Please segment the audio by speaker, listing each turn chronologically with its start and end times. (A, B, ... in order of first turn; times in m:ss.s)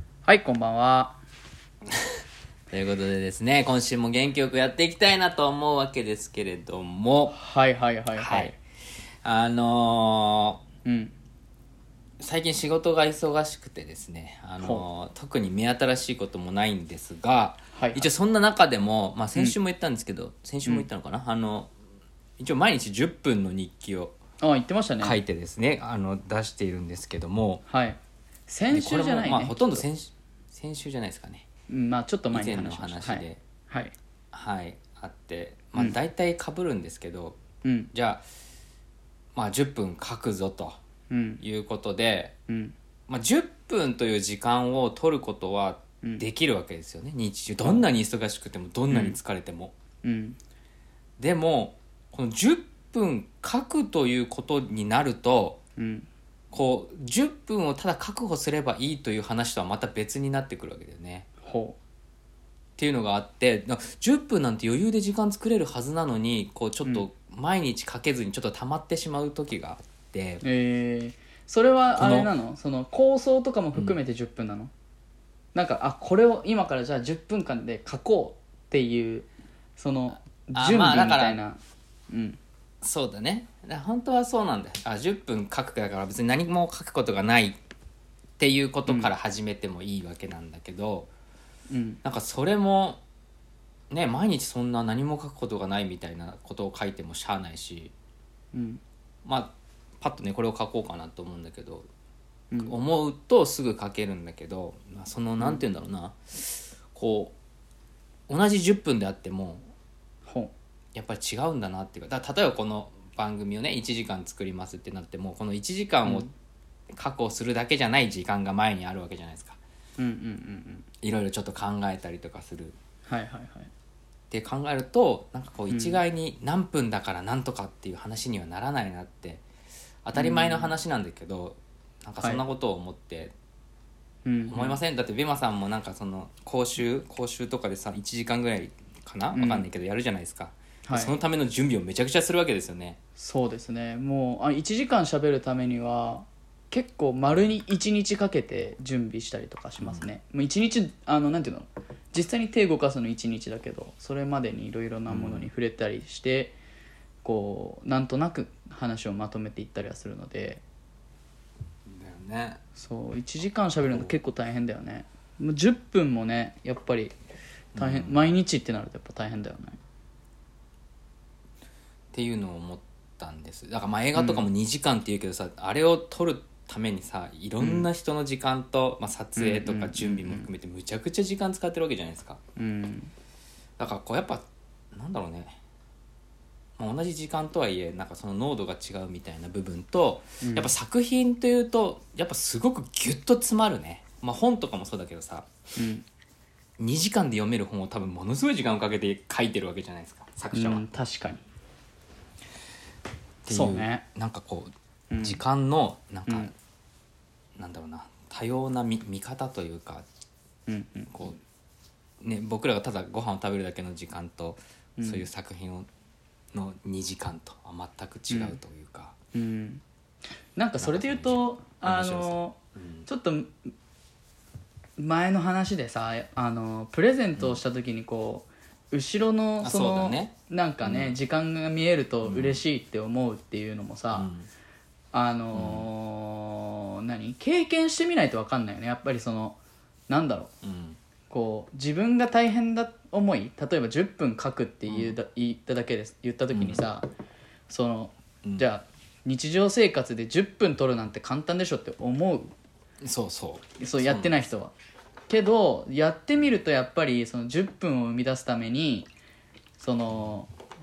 0:00.2-0:01.2 A
0:02.7-0:07.4 B
0:07.3-0:08.5 A
0:08.1-0:08.5 B
0:09.2-0:10.6 B
0:10.8-0:11.1 A
0:12.2-0:21.7 B
0:14.6-0:14.8 A
0:17.7-0:18.1 A
0:22.4-0:24.2 B
0:24.4-0:25.2 A
0:25.0-0:27.6 B
0:27.7-0:29.8 A
0:28.7-0:31.5 B
0:31.7-0:33.9 A
0:32.3-0:33.4 B
0:34.3-0:37.4 B
0:37.6-0:37.9 A
0:37.9-0:38.2 B
0:39.3-0:40.8 B
0:41.1-0:41.4 A
0:41.4-0:42.3 B
0:42.5-0:42.7 A
0:43.1-0:49.7 B
0:48.9-0:49.2 A
0:50.0-0:50.4 A
0:51.2-0:55.6 B
0:55.8-0:56.1 A
0:56.5-1:01.3 B
1:01.4-1:01.8 A
1:02.8-1:10.4 B
1:10.4-1:14.7 A
1:11.9-1:12.3 B
1:15.5-1:22.4 A
1:20.5-1:21.4 B
1:22.8-1:27.6 B
1:28.4-1:31.1 B
1:31.7-1:32.0 A
1:32.0-1:33.0 B
1:33.9-1:37.9 B
1:38.5-1:38.8 A
1:39.2-1:41.9 B
1:42.5-1:42.8 A
1:42.6-1:47.3 B
1:48.3-1:49.7 B
1:50.2-1:50.5 A
1:50.9-1:56.3 B
1:56.0-1:56.3 A
1:56.9-1:59.6 B
2:00.0-2:00.8 A
2:01.0-2:02.8 B
2:03.1-2:03.7 A
2:04.3-2:09.4 B
2:05.7-2:06.0 A
2:10.0-2:13.3 B
2:10.1-2:10.7 A
2:14.2-2:14.8 A
2:14.5-2:23.0 B
2:19.3-2:19.7 A
2:20.8-2:21.1 A
2:23.2-2:36.6 A
2:35.1-2:35.5 B
2:37.2-2:40.6 A
2:41.8-2:42.6 B
2:42.8-2:47.1 A
2:43.8-2:44.2 B
2:47.7-2:48.3 B
2:47.8-2:49.8 A
2:52.1-3:02.4 B
2:54.1-2:54.4 A
2:57.6-2:57.9 A
2:59.4-3:00.5 A
3:02.6-3:03.1 A
3:03.8-3:05.6 B
3:06.8-3:15.5 B
3:10.4-3:10.7 A
3:15.8-3:16.0 A
3:16.8-3:20.8 B
3:20.5-3:21.4 A
3:23.4-3:26.5 B
3:23.5-3:24.0 A
3:25.1-3:25.4 A
3:27.6-3:30.0 B
3:30.7-3:31.2 A
3:31.1-3:31.4 B
3:32.2-3:35.9 B
3:35.0-3:35.2 A
3:36.5-3:39.1 B
3:38.3-3:38.6 A
3:39.3-3:39.8 A
3:40.6-3:43.7 A
3:40.8-3:43.1 B
3:45.0-3:54.3 A
3:49.6-3:51.2 B
3:52.2-3:52.6 B
3:54.1-3:54.5 B
3:55.1-3:59.6 A
3:55.5-3:55.9 B
4:00.1-4:00.5 A
4:00.6-4:01.0 B
4:01.3-4:07.1 A
4:04.9-4:05.1 B
4:06.5-4:06.8 B
4:07.7-4:12.5 A
4:13.0-4:14.3 B
4:13.8-4:14.7 A
4:15.3-4:19.1 A
4:19.8-4:20.5 A